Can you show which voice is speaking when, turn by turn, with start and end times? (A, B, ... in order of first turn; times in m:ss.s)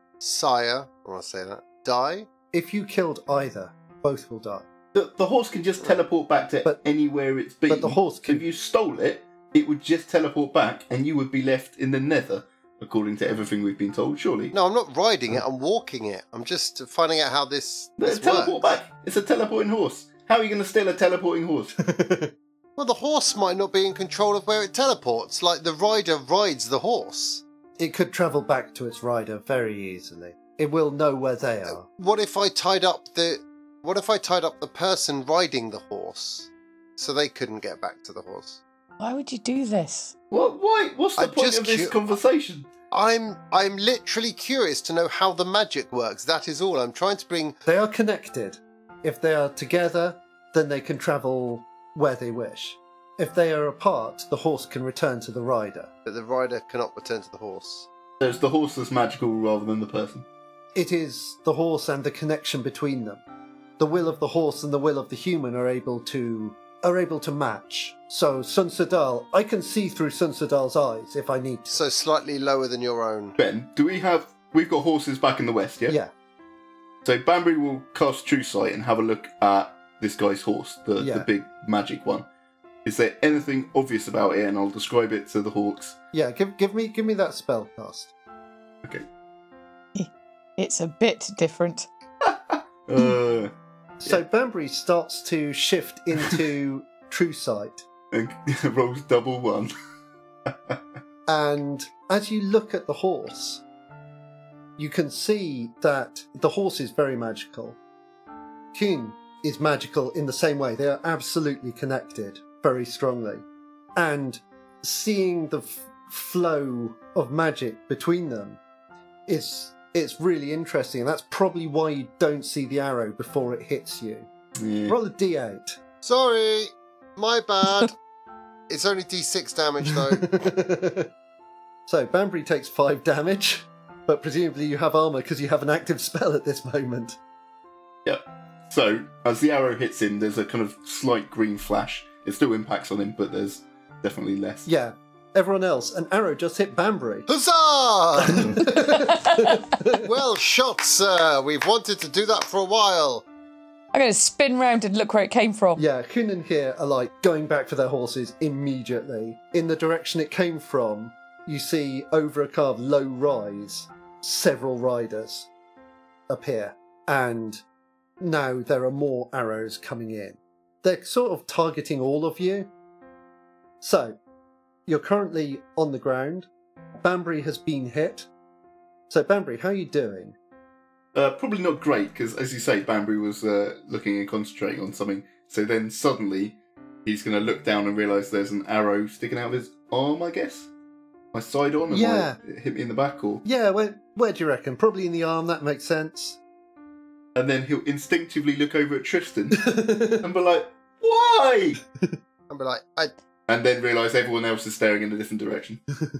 0:00.2-0:02.3 A
0:02.5-0:04.6 B
0:04.9-0:14.5 C
0:07.7-0:08.4 B
0:14.5-0:18.6 A
0:18.0-0:21.7 C
0:21.8-0:22.3 B
0:22.8-0:27.4 A
0:27.8-0:31.8 B
0:31.7-0:38.6 A
0:39.0-0:40.1 D
0:40.3-0:42.7 C
0:41.2-0:42.0 A
0:42.9-0:47.6 A
0:47.6-0:55.9 B
0:56.0-0:57.9 A
0:58.2-1:00.2 C
1:00.7-1:03.2 B
1:03.8-1:11.8 B
1:11.7-1:13.4 A
1:13.4-1:16.0 C
1:17.0-1:22.2 C
1:21.0-1:21.3 B
1:22.8-1:26.0 C
1:26.1-1:28.1 B
1:29.9-1:31.9 D
1:32.2-1:33.5 C
1:34.0-1:37.8 B
1:38.1-1:39.7 C
1:40.5-1:40.8 C
1:41.3-1:43.6 B
1:44.8-1:47.8 B
1:48.7-1:53.4 B
1:54.0-1:58.6 B
1:59.3-2:04.3 B
2:04.6-2:05.0 C
2:04.9-2:05.8 B
2:06.0-2:07.9 A
2:08.7-2:10.4 A
2:10.0-2:11.1 B
2:11.9-2:17.2 B
2:18.0-2:24.7 C
2:24.6-2:27.3 B
2:27.3-2:28.7 A
2:28.2-2:30.1 B
2:30.0-2:33.2 A
2:33.9-2:35.8 D
2:35.8-2:45.5 B
2:46.3-2:47.6 B
2:48.2-2:52.7 B
2:53.8-2:54.2 B
2:54.9-2:56.5 B
2:57.0-2:58.3 B
2:59.1-3:00.4 B
3:01.1-3:10.7 C
3:11.3-3:13.4 C
3:11.9-3:12.4 B
3:13.4-3:16.4 B
3:17.3-3:21.8 C
3:19.5-3:20.2 B
3:22.5-3:23.1 A
3:23.5-3:25.8 C